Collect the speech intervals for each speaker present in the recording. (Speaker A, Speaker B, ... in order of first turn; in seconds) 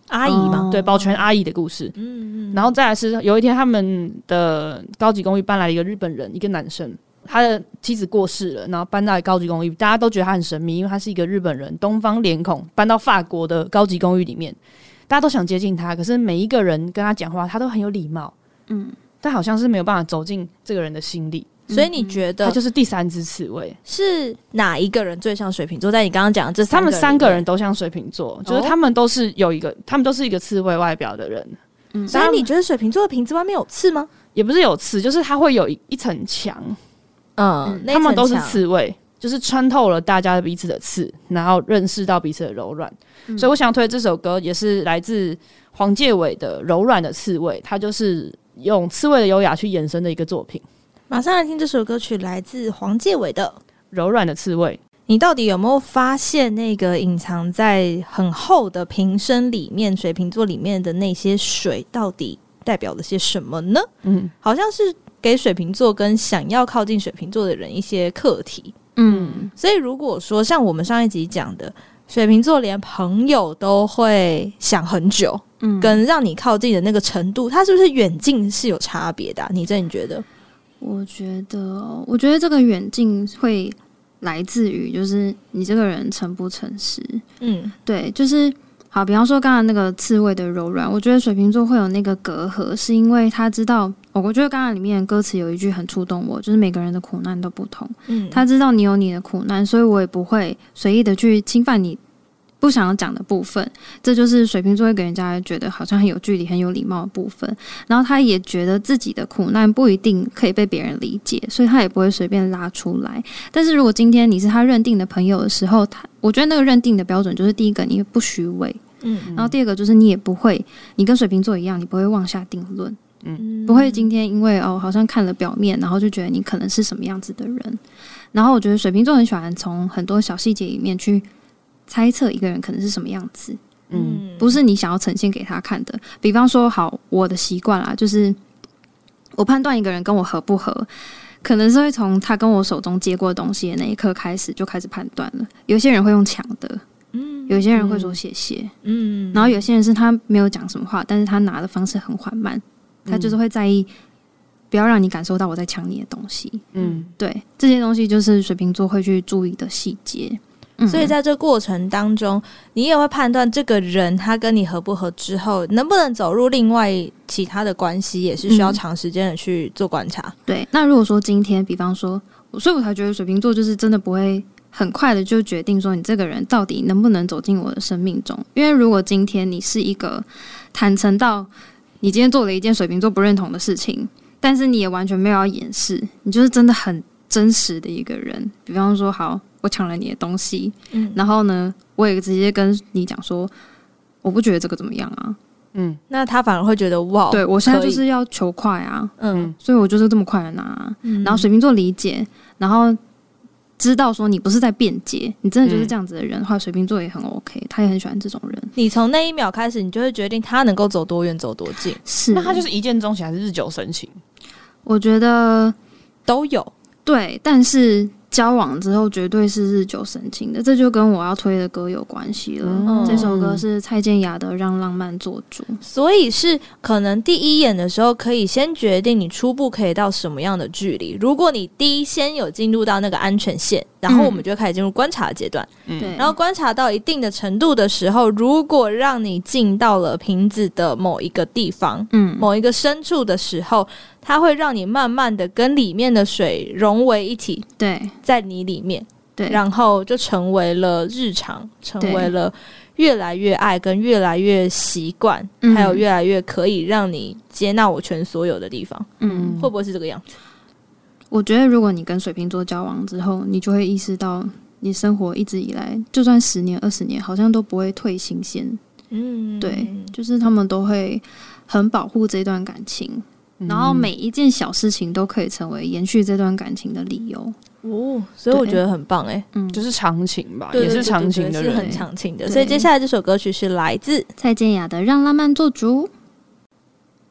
Speaker A: 0.1-0.7, 2.0-2.7, 21.7-22.6, 23.9-27.4, 28.4-28.8, 32.1-34.1, 37.4-38.6, 51.1-53.6, 55.1-63.9, 64.4-68.8, 69.6-80.2, 87.4-87.7, 98.1-98.4, 119.0-119.3, 123.4-124.1, 133.9-134.6, 147.1-148.2, 148.8-149.6, 156.8-157.1, 160.9-170.3, 190.9-191.2, 196.1-198.0, 199.2-199.5, 201.0-201.5, 208.8-212.0, 216.3-216.7, 222.9-223.3, 225.8-247.7, 248.2-260.2, 269.1-270.1, 277.8-279.5, 280.7-284.3
Speaker B: 0.2-1.2, 18.7-19.0, 21.7-22.2, 31.9-32.2, 43.3-43.6, 69.0-69.5, 75.6-76.0, 80.8-87.2, 87.8-102.0, 102.6-118.8, 119.3-123.0, 123.7-127.8, 128.3-131.3, 131.9-133.6, 134.4-138.4, 139.4-140.9, 141.4-146.8, 147.5-148.7, 149.3-153.9, 154.7-161.2, 168.5-168.8, 170.5-181.5, 182.0-193.5, 194.2-195.4, 197.3-203.0, 203.8-208.7, 212.0-212.7, 214.9-215.8, 217.1-225.8, 234.1-234.4, 236.0-236.3, 242.1-242.5, 247.8-248.2, 249.4-249.6, 252.0-252.3, 255.6-256.1, 259.2-259.6, 261.3-268.8, 269.6-277.6, 278.5-278.8, 279.5-279.8, 281.7-282.9, 284.4-286.1
Speaker C: 0.5-2.0, 2.5-14.6, 15.1-18.3, 19.2-21.6, 22.4-23.8, 26.7-31.6, 32.1-32.5, 34.4-36.8, 37.9-50.6, 53.9-54.8, 64.0-64.3, 69.1-69.5, 119.3-119.5, 133.9-134.2, 153.1-153.3, 156.8-157.1, 195.8-196.0, 205.7-205.9, 212.3-214.2, 222.6-223.6, 235.9-236.2, 259.2-259.7, 273.6-274.1, 279.7-281.9